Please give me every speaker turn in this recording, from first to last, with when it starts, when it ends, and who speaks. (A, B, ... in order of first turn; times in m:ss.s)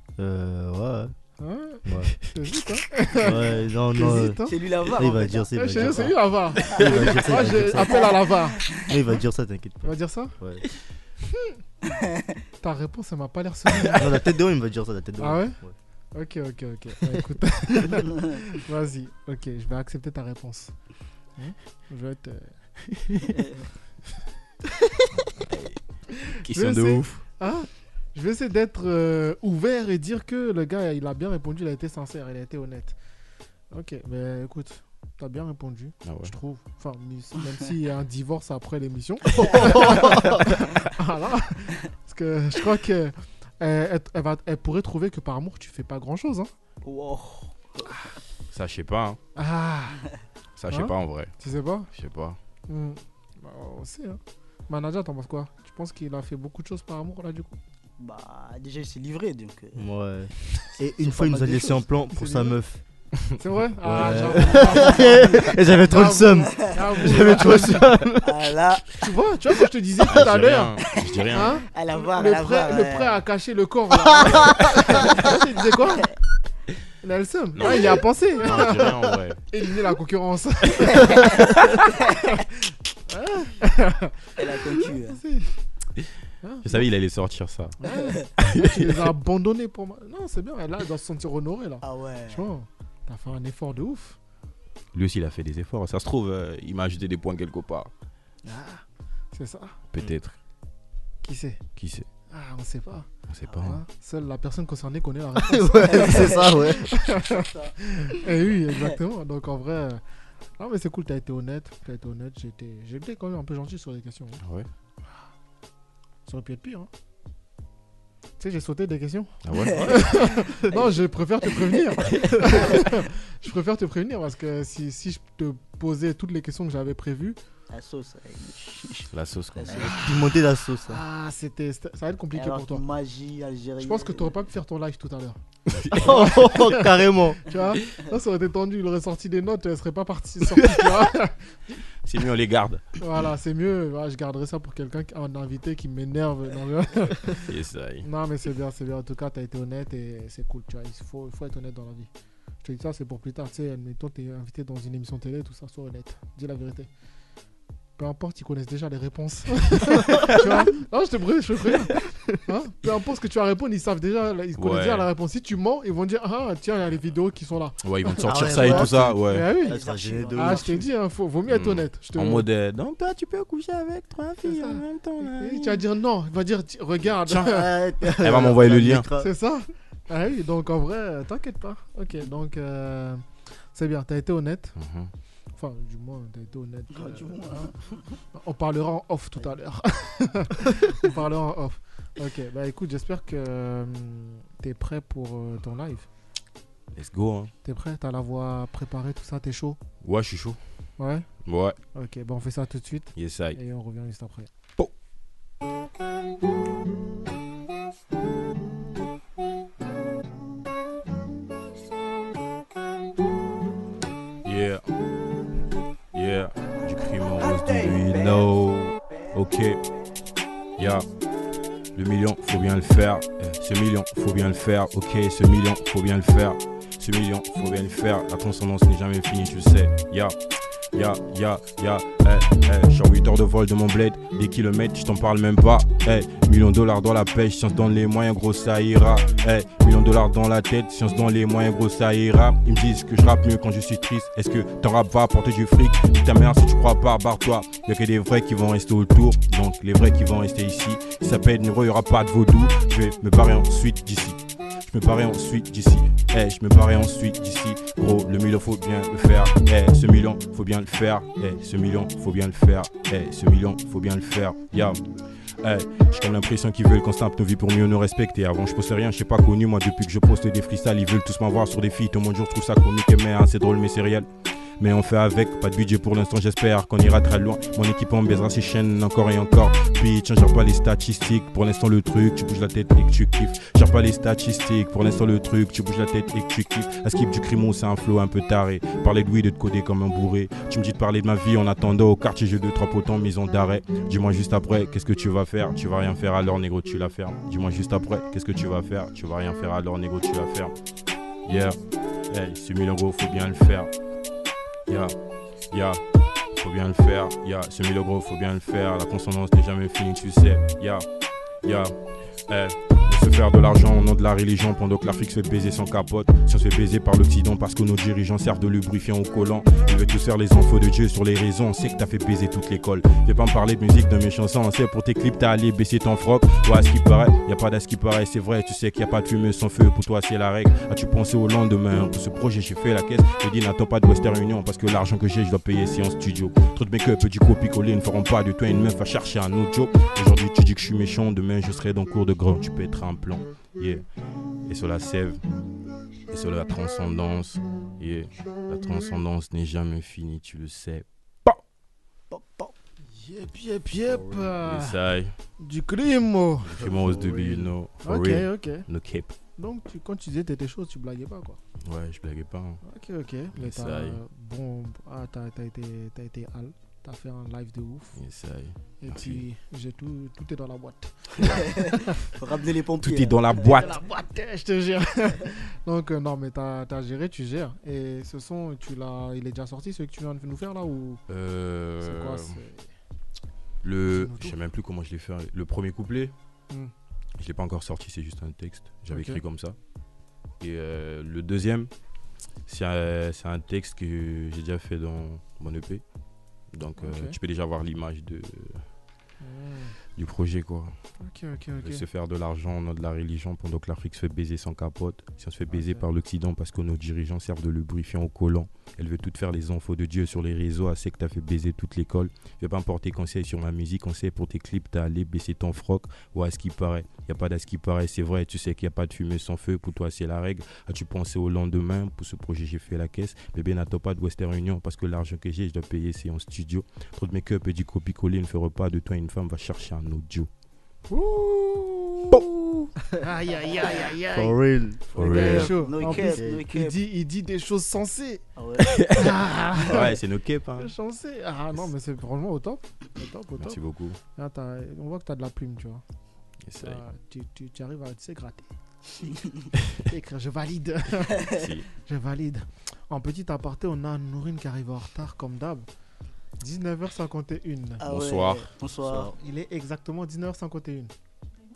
0:00.2-0:01.2 A
0:01.4-0:04.7 B
0:01.8-0:02.2 A
0:03.1-0:08.1 A
0:04.4-0:07.4 C
0:05.5-0:08.6 B
0:08.0-0:08.9 C
0:08.9-0:10.7 A
0:09.8-0:10.4 B
0:11.3-0:11.6 B
0:11.9-0:12.3 C
0:12.6-0:14.1 B
0:13.7-0:14.0 D
0:13.9-0:15.8 A
0:15.2-0:15.6 B
0:16.1-0:20.7 B
0:21.4-0:22.5 B
0:23.4-0:23.6 C
0:25.4-0:27.2 D
0:26.3-0:33.0 B
0:33.7-0:46.5 B
0:36.0-0:36.4 D
0:39.4-0:39.7 C
0:46.8-0:48.0 C
0:48.5-0:49.2 D
0:49.4-0:50.1 B
0:50.6-0:51.3 D
0:50.7-0:51.9 B
0:51.9-0:52.4 D
0:52.7-0:57.6 B
0:58.0-0:59.9 C
0:59.8-1:02.8 A
1:01.0-1:01.8 C
1:02.1-1:02.6 B
1:03.4-1:07.9 B
1:03.8-1:08.4 A
1:04.4-1:05.6 C
1:06.4-1:07.0 C
1:08.2-1:08.9 C
1:09.0-1:16.1 B
1:10.1-1:11.6 D
1:11.7-1:13.2 C
1:15.0-1:15.3 C
1:17.0-1:19.0 B
1:17.6-1:19.4 D
1:19.5-1:21.5 B
1:21.1-1:21.5 C
1:23.1-1:25.5 B
1:24.4-1:25.2 C
1:26.4-1:26.8 B
1:26.6-1:29.1 D
1:27.8-1:34.2 B
1:31.8-1:32.5 C
1:34.9-1:37.9 D
1:38.4-1:39.8 B
1:39.9-1:40.4 D
1:41.2-1:41.6 B
1:41.8-1:42.1 D
1:42.3-1:50.0 B
1:43.3-1:43.8 D
1:45.4-1:47.2 A
1:45.9-1:46.6 C
1:47.3-1:47.7 C
1:48.6-1:49.0 C
1:50.6-1:54.4 B
1:54.4-1:54.7 D
1:56.3-1:56.9 B
1:58.4-2:07.4 B
1:59.4-2:00.0 D
1:59.5-2:02.9 C
2:07.7-2:10.1 C
2:09.1-2:09.9 D
2:09.8-2:10.1 B
2:09.8-2:11.0 A
2:10.9-2:12.9 B
2:12.3-2:14.4 C
2:13.8-2:21.8 B
2:15.7-2:16.3 D
2:16.0-2:17.4 A
2:20.6-2:21.0 D
2:22.0-2:22.9 D
2:23.0-2:27.5 B
2:27.4-2:28.1 D
2:28.0-2:32.1 B
2:32.6-2:36.9 B
2:38.0-2:49.8 B
2:44.6-2:45.1 D
2:47.8-2:49.5 D
2:48.2-2:50.8 A
2:48.6-2:48.9 C
2:49.5-2:50.9 C
2:50.3-2:52.5 B
2:51.5-2:55.8 D
2:54.4-2:57.7 B
2:57.2-2:57.5 D
2:57.4-2:59.3 A
2:58.2-2:59.1 D
2:59.2-3:04.8 B
3:04.8-3:05.1 D
3:05.6-3:07.8 B
3:06.9-3:08.0 C
3:08.3-3:16.1 B
3:16.9-3:17.5 D
3:17.6-3:19.8 B
3:20.0-3:20.6 D
3:21.0-3:21.3 B
3:21.4-3:21.8 D
3:21.9-3:24.5 B
3:23.2-3:23.6 D
3:34.4-3:34.9 D
3:36.1-3:39.8 D
3:40.8-3:41.1 D
3:42.0-3:50.4 D
3:50.9-4:25.0 D
4:25.6-4:34.3 D
4:34.8-5:00.8 D
5:01.4-5:03.9 D
5:04.9-5:05.2 D
5:05.7-5:06.0 D
5:06.6-5:11.1 D
5:11.6-5:12.0 D
5:12.5-5:44.1 D
5:44.6-5:45.4 D
5:46.3-5:51.6 D
5:52.3-5:52.7 C
5:53.1-5:55.0 B
5:54.6-5:55.4 D
5:55.6-5:56.9 B
5:56.6-5:59.4 D
5:56.8-5:57.7 A
5:58.0-5:58.9 B
5:59.6-6:01.6 B
6:01.8-6:02.8 D
6:02.8-6:08.2 B
6:03.5-6:04.2 D
6:08.2-6:09.5 D
6:09.0-6:12.3 B
6:11.4-6:13.9 C
6:13.0-6:13.9 D
6:13.6-6:21.2 B
6:21.3-6:22.6 D
6:22.0-6:22.9 B
6:23.8-6:26.3 D
6:24.1-6:24.6 B
6:27.4-6:29.8 D
6:29.1-6:29.4 B
6:30.6-6:31.9 D
6:32.7-6:36.0 D
6:36.7-6:38.9 D
6:37.0-6:37.4 B
6:39.4-6:40.0 B
6:40.2-6:41.0 D
6:41.2-6:42.0 B
6:41.8-7:10.5 D
6:45.7-6:46.0 B
7:11.1-7:12.4 B
7:12.3-7:12.9 D
7:13.2-7:14.6 B
7:13.7-7:14.1 C
7:14.3-7:16.7 A
7:15.1-7:18.4 B
7:15.2-7:15.8 D
7:15.2-7:17.0 C
7:18.6-7:19.1 C
7:18.8-7:20.9 D
7:19.1-7:20.2 B
7:20.8-7:23.8 B
7:23.6-7:24.2 D
7:24.4-7:26.0 B
7:26.6-7:27.0 D
7:26.8-7:29.3 B
7:30.0-7:35.9 B
7:31.5-7:31.9 D
7:36.6-7:38.0 B
7:38.0-7:39.3 C
7:38.0-7:38.7 D
7:39.0-7:39.3 A
7:39.4-7:41.1 B